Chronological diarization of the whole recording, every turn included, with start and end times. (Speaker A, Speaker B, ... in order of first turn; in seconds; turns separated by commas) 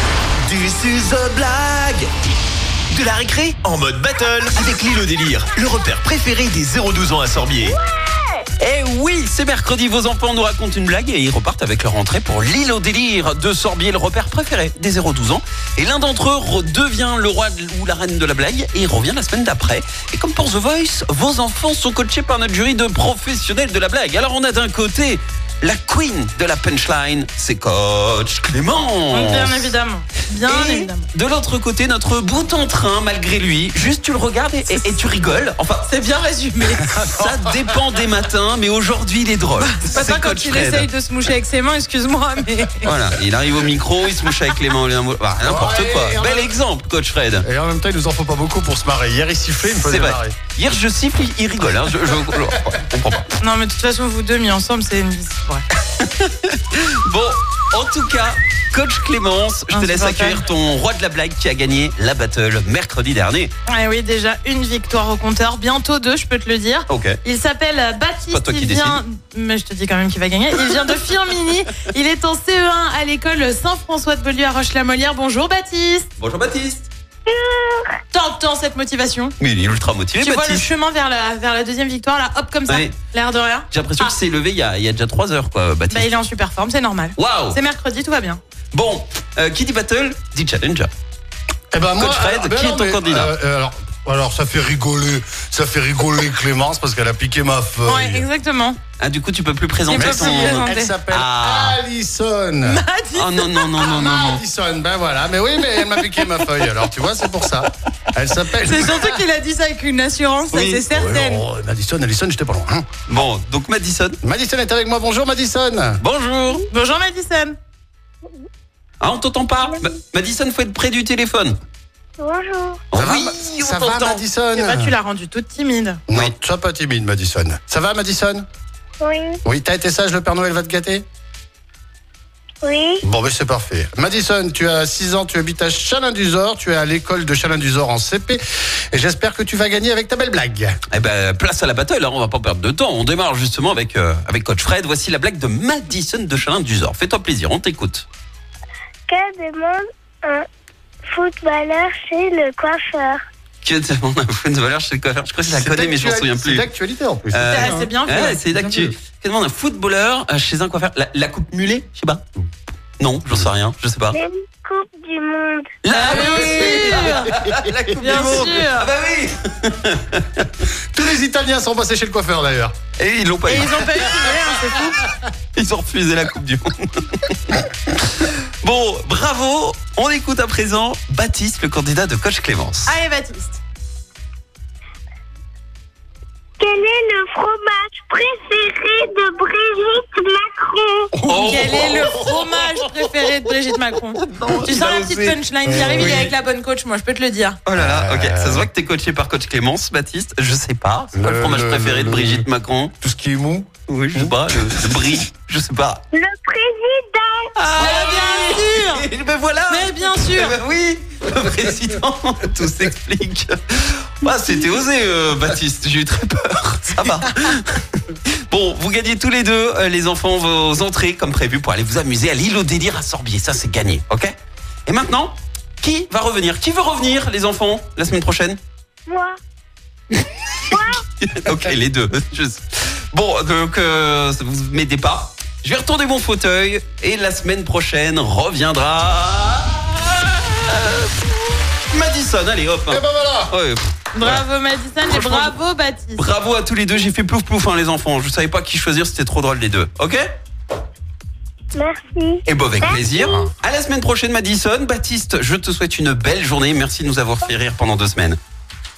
Speaker A: 0.5-2.0, Speaker A: 2.9-7.8, Speaker B: 7.6-8.1, Speaker C: 8.6-29.7, Speaker D: 29.1-31.1, Speaker C: 30.5-35.9, Speaker D: 35.9-37.0, Speaker E: 37.0-37.7, Speaker C: 37.1-40.9, Speaker D: 39.6-43.1, Speaker C: 42.8-47.5, Speaker E: 45.4-46.6, Speaker E: 47.4-50.4, Speaker C: 49.7-53.3, Speaker D: 53.4-55.7, Speaker C: 56.0-63.5, Speaker D: 59.7-60.5, Speaker D: 63.7-76.1, Speaker C: 66.9-67.2, Speaker C: 68.3-69.0, Speaker C: 76.2-76.9, Speaker B: 77.3-78.0, Speaker D: 78.1-79.3, Speaker C: 79.4-80.7, Speaker D: 80.2-84.1, Speaker C: 82.7-83.0, Speaker C: 83.7-86.1, Speaker D: 85.9-88.4, Speaker C: 87.2-87.6, Speaker C: 88.7-90.9, Speaker E: 91.7-98.3, Speaker C: 92.0-93.3, Speaker D: 97.9-98.8, Speaker C: 99.0-101.8, Speaker D: 99.9-101.0, Speaker E: 99.9-102.8, Speaker D: 102.6-103.9, Speaker C: 103.2-104.4, Speaker E: 103.8-109.2, Speaker D: 108.6-111.4, Speaker C: 110.5-110.8, Speaker E: 110.9-112.9, Speaker C: 113.1-114.2, Speaker E: 114.2-116.0, Speaker C: 116.0-116.7, Speaker D: 116.7-117.6, Speaker C: 119.0-121.6, Speaker B: 122.2-122.8, Speaker C: 122.9-124.2, Speaker E: 122.9-124.9, Speaker D: 124.6-126.0, Speaker E: 126.1-128.5, Speaker B: 129.0-129.4, Speaker E: 129.4-131.0, Speaker B: 132.6-133.0, Speaker E: 133.0-140.8, Speaker C: 140.9-148.1, Speaker B: 149.1-150.5, Speaker B: 151.1-153.2, Speaker C: 153.6-156.7, Speaker E: 155.5-157.9, Speaker C: 157.3-162.2, Speaker D: 157.5-158.4, Speaker E: 158.5-158.9, Speaker C: 163.0-164.2, Speaker B: 164.1-167.0, Speaker C: 165.8-170.6, Speaker D: 165.9-167.4, Speaker D: 168.0-168.9, Speaker E: 170.9-172.8, Speaker C: 173.0-174.2, Speaker D: 173.5-175.0, Speaker C: 175.5-183.0, Speaker D: 182.9-183.6, Speaker B: 186.6-191.1, Speaker E: 191.2-192.4, Speaker C: 191.3-192.2, Speaker D: 191.4-197.6, Speaker C: 194.2-196.3, Speaker E: 195.7-196.3, Speaker C: 197.7-202.9, Speaker E: 197.7-198.7, Speaker E: 201.1-202.5, Speaker E: 203.0-205.2, Speaker C: 203.9-206.1, Speaker B: 206.1-208.1, Speaker C: 207.6-224.3, Speaker D: 207.8-209.1, Speaker D: 209.7-210.6, Speaker C: 224.9-228.6, Speaker B: 229.1-229.4, Speaker B: 230.7-231.0, Speaker C: 230.7-244.4, Speaker E: 242.9-243.5, Speaker D: 244.1-246.3, Speaker C: 245.1-245.6, Speaker C: 246.2-250.2, Speaker B: 251.7-253.4, Speaker C: 252.5-258.4, Speaker E: 253.2-253.5